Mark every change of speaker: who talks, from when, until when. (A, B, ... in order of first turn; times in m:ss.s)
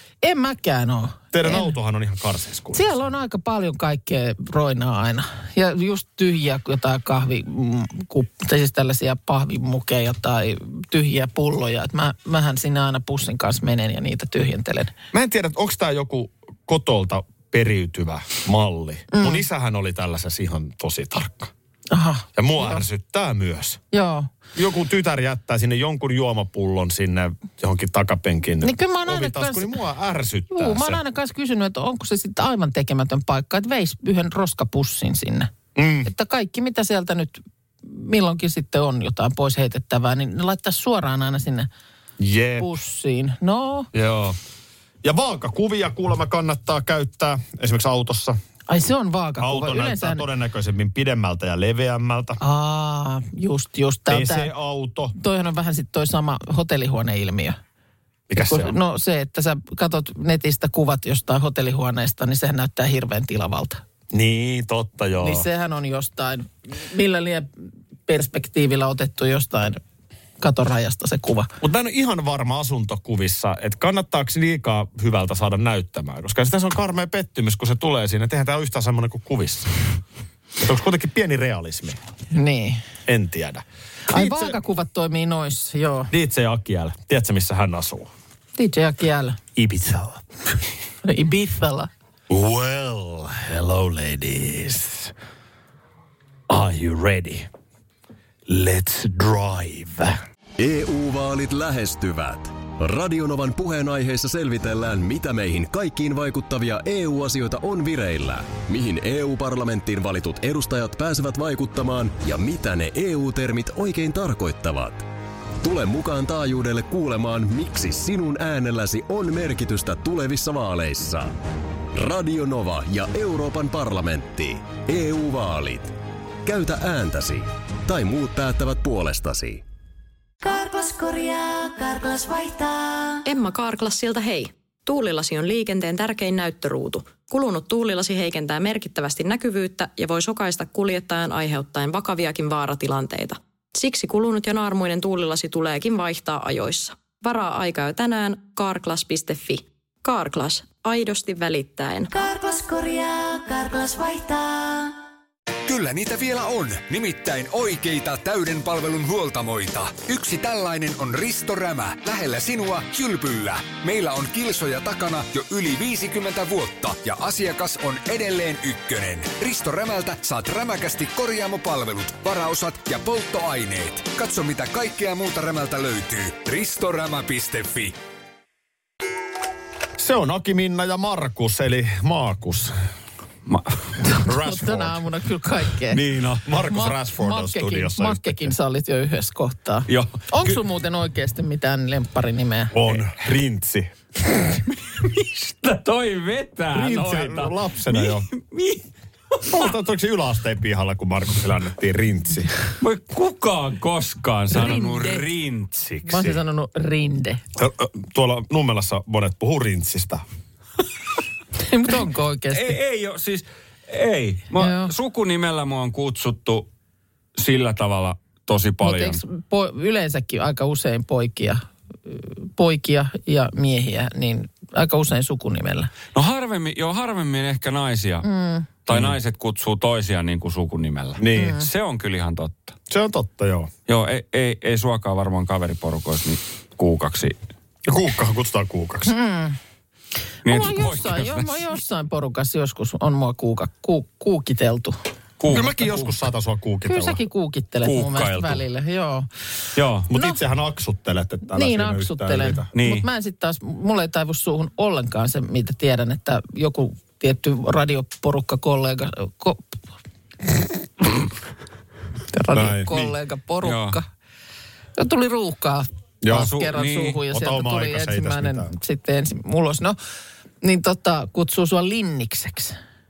0:00.2-0:01.7 A
0:01.3-0:03.0 B
0:02.7-0:14.9 A
0:15.1-0:21.5 B
0:19.1-0:19.4 A
0:21.9-0:22.8 A
0:22.4-0:23.8 B
0:23.9-0:24.3 A
0:24.6-0:31.0 B
0:28.6-0:29.8 A
0:30.5-0:35.5 A
0:35.8-0:36.1 B
0:36.0-0:41.7 A
0:42.2-0:42.8 B
0:42.6-0:43.9 A
0:43.9-0:44.4 B
0:45.0-0:48.4 B
0:48.7-0:50.2 A
0:49.4-0:52.4 B
0:52.4-0:54.5 A
0:54.1-0:55.1 B
0:55.1-0:57.6 A
0:58.3-0:58.8 B
0:58.4-1:03.8 A
1:04.1-1:05.5 B
1:05.2-1:07.5 A
1:08.1-1:09.8 A
1:10.4-1:11.5 A
1:11.6-1:19.7 B
1:20.6-1:22.0 B
1:22.3-1:22.8 A
1:23.1-1:24.6 B
1:24.1-1:26.1 A
1:26.1-1:28.1 B
1:28.6-1:29.4 A
1:29.6-1:30.2 B
1:31.0-1:31.9 A
1:32.3-1:35.1 B
1:36.5-1:37.5 B
1:38.5-1:40.2 B
1:40.6-1:55.1 C
1:55.6-2:01.3 C
2:01.9-2:05.9 C
2:06.4-2:09.6 C
2:10.4-2:13.2 D
2:13.2-2:32.2 E
2:32.2-2:34.9 D
2:35.7-2:58.0 F
3:00.0-3:02.8 B
3:03.5-3:03.8 G
3:04.0-3:06.0 A
3:04.2-3:05.0 B
3:05.9-3:06.4 G
3:06.4-3:08.5 B
3:06.6-3:12.7 A
3:09.9-3:10.6 G
3:12.7-3:13.9 B
3:14.7-3:18.8 G
3:16.7-3:18.3 B
3:19.5-3:22.5 B
3:22.8-3:26.4 G
3:24.5-3:25.2 A
3:26.1-3:27.4 A
3:27.6-3:30.2 B
3:31.6-3:32.8 A
3:32.5-3:36.7 G
3:34.6-3:34.9 A
3:37.4-3:39.2 G
3:38.8-3:45.9 A
3:46.1-3:48.2 G
3:48.2-3:48.7 A
3:48.9-3:52.8 G
3:48.9-3:49.2 B
3:51.2-3:51.6 B
3:51.4-3:51.7 A
3:52.9-3:53.7 B
3:53.9-3:57.4 G
3:57.9-3:59.1 B
3:59.1-3:59.6 A
4:00.4-4:05.0 A
4:00.5-4:01.7 G
4:05.4-4:06.1 G
4:05.5-4:07.2 B
4:06.9-4:09.3 A
4:07.8-4:08.6 G
4:09.8-4:10.1 G
4:10.1-4:12.7 B
4:10.1-4:10.4 A
4:11.5-4:19.8 A
4:12.7-4:13.1 G
4:22.3-4:24.0 A
4:22.5-4:23.1 B
4:23.6-4:24.0 G
4:25.0-4:30.0 A
4:26.2-4:26.5 B
4:26.3-4:27.2 G
4:27.3-4:28.7 B
4:30.6-4:32.8 A